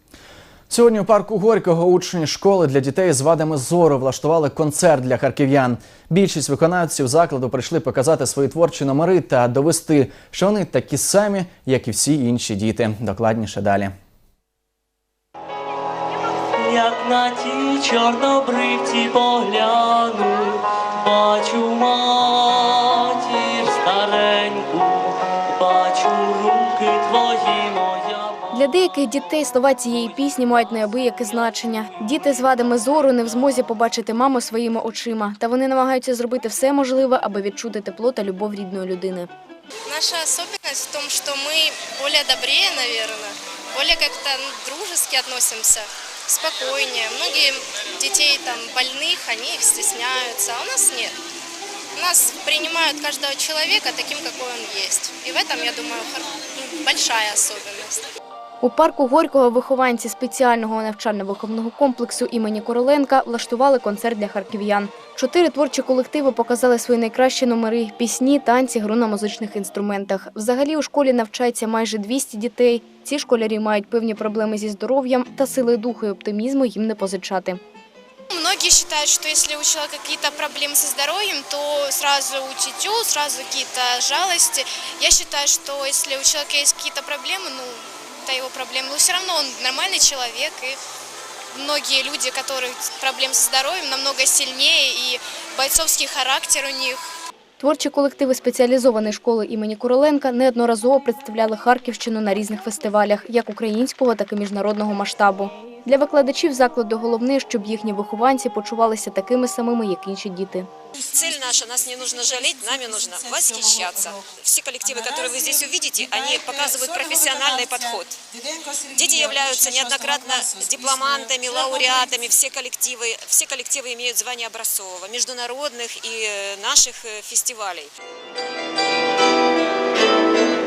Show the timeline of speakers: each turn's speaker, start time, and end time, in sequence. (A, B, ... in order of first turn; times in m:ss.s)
0:00.7-0:13.9 A
0:16.6-0:28.4 B
0:28.5-0:39.3 C
0:39.9-0:51.2 D
0:52.0-0:58.0 D
0:58.6-1:17.6 C
1:18.3-1:30.8 D
1:31.5-1:37.0 D
1:37.6-1:50.7 C
1:51.1-1:58.2 E
1:58.9-2:07.9 E